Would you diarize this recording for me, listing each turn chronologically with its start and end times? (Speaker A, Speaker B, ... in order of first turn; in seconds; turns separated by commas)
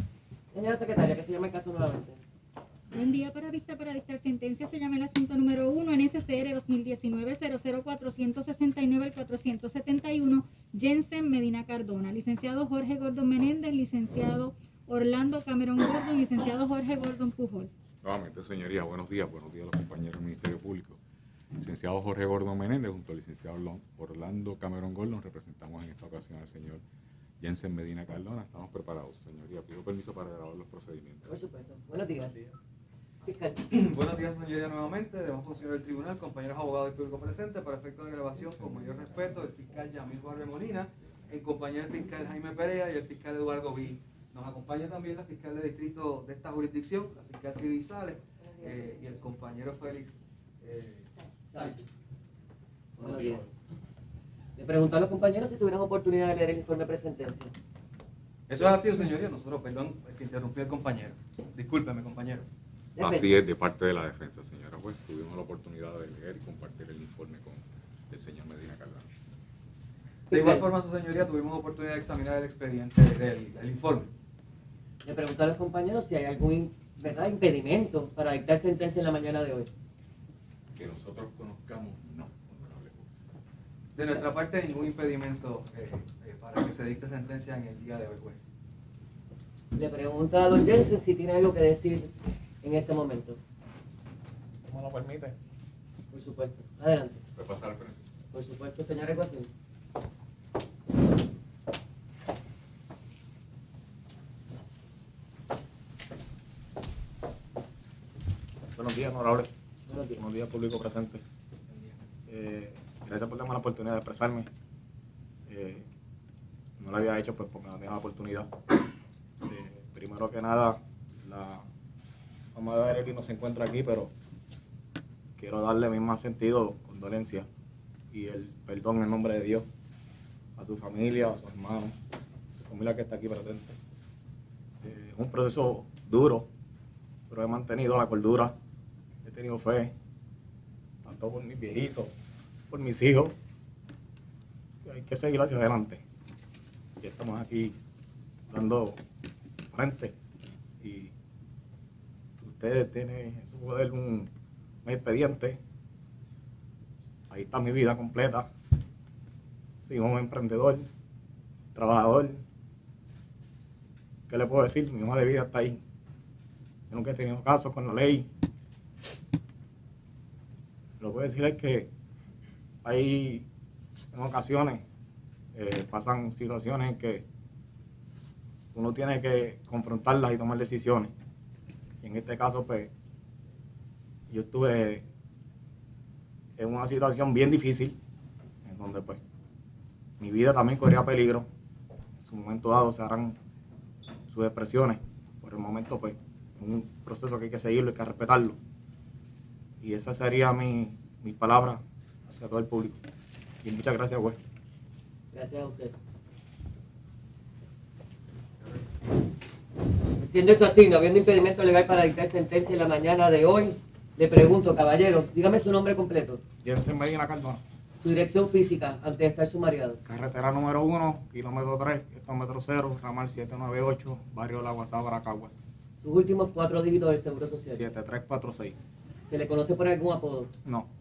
Speaker A: 0.5-2.2, Speaker B: 2.9-17.7, Speaker C: 18.0-21.0, Speaker C: 21.6-26.8, Speaker C: 27.4-31.3, Speaker A: 31.3-32.3, Speaker A: 33.2-33.7, Speaker D: 33.7-51.8, Speaker A: 51.5-51.8, Speaker D: 53.0-53.4, Speaker A: 53.0-53.5, Speaker A: 54.6-57.5, Speaker D: 58.5-62.5, Speaker A: 63.0-63.3, Speaker C: 63.0-69.1, Speaker D: 70.3-74.1, Speaker A: 70.3-70.6, Speaker A: 75.0-79.7, Speaker C: 80.8-83.1, Speaker D: 84.0-88.4, Speaker A: 89.8-92.1, Speaker A: 92.6-93.4, Speaker E: 94.7-95.4, Speaker A: 96.1-97.2, Speaker C: 97.3-98.0, Speaker A: 98.3-99.5, Speaker E: 108.7-109.5, Speaker A: 109.9-110.2, Speaker E: 110.1-111.2, Speaker E: 112.3-114.5, Speaker E: 115.5-115.8, Speaker E: 116.8-118.5, Speaker E: 119.4-121.7, Speaker E: 122.5-124.1, Speaker E: 125.4-127.5, Speaker E: 128.1-129.7, Speaker E: 130.6-131.9, Speaker E: 132.7-133.8, Speaker E: 134.8-136.5, Speaker E: 137.3-138.5, Speaker E: 139.2-139.9, Speaker E: 141.1-142.1, Speaker E: 142.7-143.3, Speaker E: 144.9-146.0, Speaker E: 147.0-147.8, Speaker E: 148.5-149.0, Speaker E: 149.7-150.1, Speaker E: 150.8-151.1, Speaker E: 152.4-154.3, Speaker E: 154.8-155.6, Speaker E: 157.3-158.5, Speaker E: 159.8-160.9, Speaker E: 161.8-162.4, Speaker E: 164.3-165.8, Speaker E: 166.9-168.3, Speaker E: 171.0-171.9, Speaker E: 172.8-173.4, Speaker E: 174.1-174.8, Speaker E: 175.6-177.2, Speaker E: 178.7-181.1, Speaker E: 182.0-182.9, Speaker E: 184.3-185.1, Speaker E: 186.6-187.9, Speaker E: 188.7-189.2, Speaker E: 190.2-191.5, Speaker E: 192.2-193.4, Speaker E: 194.3-198.6, Speaker E: 199.8-203.0, Speaker E: 203.6-204.4, Speaker A: 205.3-205.9, Speaker A: 210.2-216.4, Speaker E: 216.6-217.6, Speaker A: 218.0-220.0, Speaker E: 220.1-225.6, Speaker A: 226.0-227.8, Speaker E: 227.7-228.8, Speaker A: 229.3-230.5